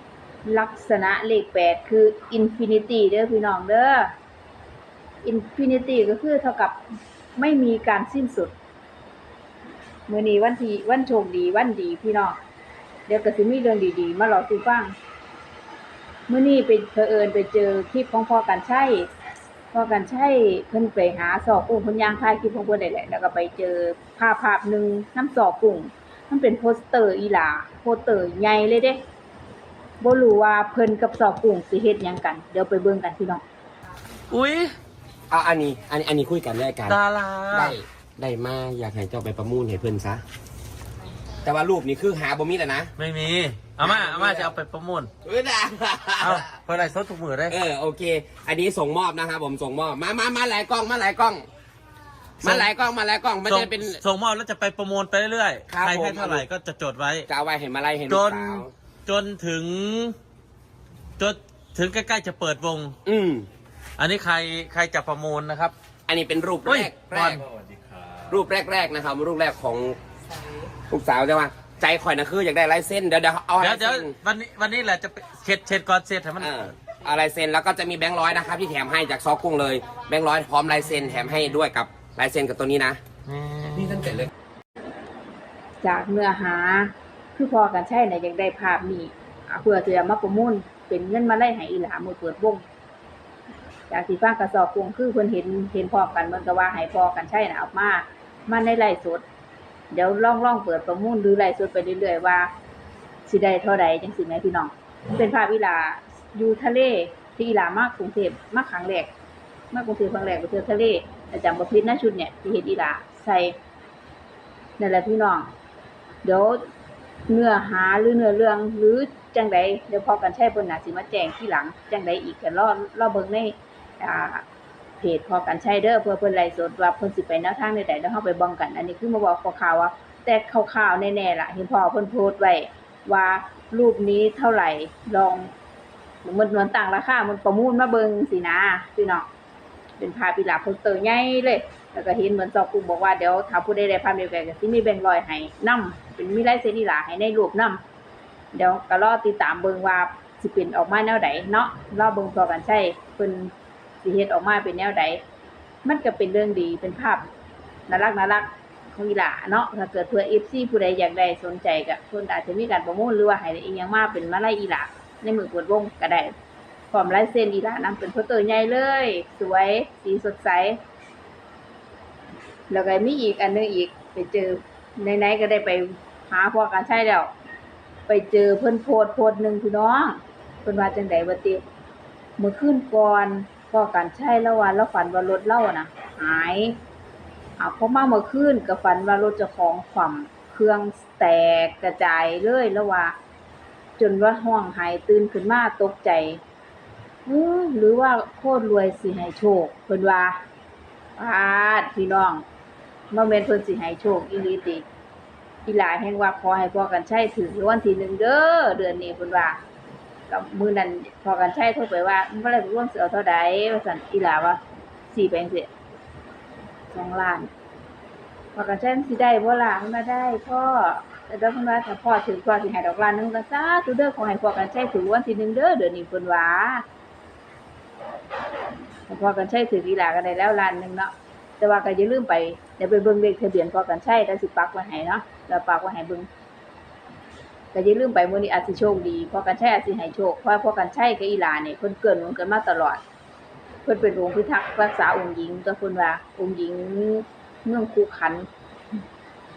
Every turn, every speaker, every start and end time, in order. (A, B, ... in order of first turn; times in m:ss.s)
0:00.4-0:04.1 A
0:05.2-0:06.8 A
0:07.4-0:08.5 A
0:10.1-0:12.4 A
0:13.1-0:15.0 A
0:16.3-0:19.1 A
0:19.7-0:29.0 A
0:30.0-0:33.4 A
0:34.3-0:34.8 B
0:35.3-0:37.0 C
0:36.9-0:37.8 B
0:37.5-0:40.2 C
0:41.4-0:42.9 C
0:43.0-0:45.1 B
0:43.8-0:44.6 C
0:45.2-0:46.5 C
0:46.2-0:47.6 B
0:47.5-0:51.5 C
0:52.4-0:52.7 B
0:52.4-0:54.0 C
0:53.5-0:57.3 B
0:55.7-0:56.5 C
0:57.3-0:58.7 C
0:58.1-1:00.2 B
1:01.2-1:03.0 B
1:03.0-1:03.5 C
1:04.0-1:05.7 B
1:06.1-1:07.4 C
1:06.6-1:07.4 B
1:08.3-1:10.0 C
1:10.9-1:14.1 C
1:13.6-1:16.7 B
1:16.4-1:23.0 C
1:23.3-1:24.3 B
1:25.8-1:32.6 A
1:33.9-1:39.2 A
1:39.9-1:42.5 A
1:43.2-1:49.1 A
1:49.7-1:53.6 A
1:54.8-1:55.5 A
1:56.2-1:56.6 A
1:57.3-2:04.4 A
2:05.0-2:15.5 A
2:16.2-2:19.3 A
2:20.0-2:27.8 A
2:28.5-2:35.2 A
2:35.8-2:37.3 A
2:37.9-2:46.3 A
2:46.9-2:50.8 A
2:52.7-2:57.3 A
2:58.1-3:01.6 A
3:02.4-3:06.8 A
3:07.6-3:13.2 A
3:14.0-3:16.4 A
3:17.2-3:20.4 A
3:21.2-3:22.4 A
3:23.1-3:24.8 A
3:25.6-3:29.6 A
3:30.3-3:35.7 A
3:36.9-3:37.5 A
3:38.5-3:46.8 A
3:49.1-3:56.3 A
3:57.7-4:03.0 A
4:03.8-4:08.5 A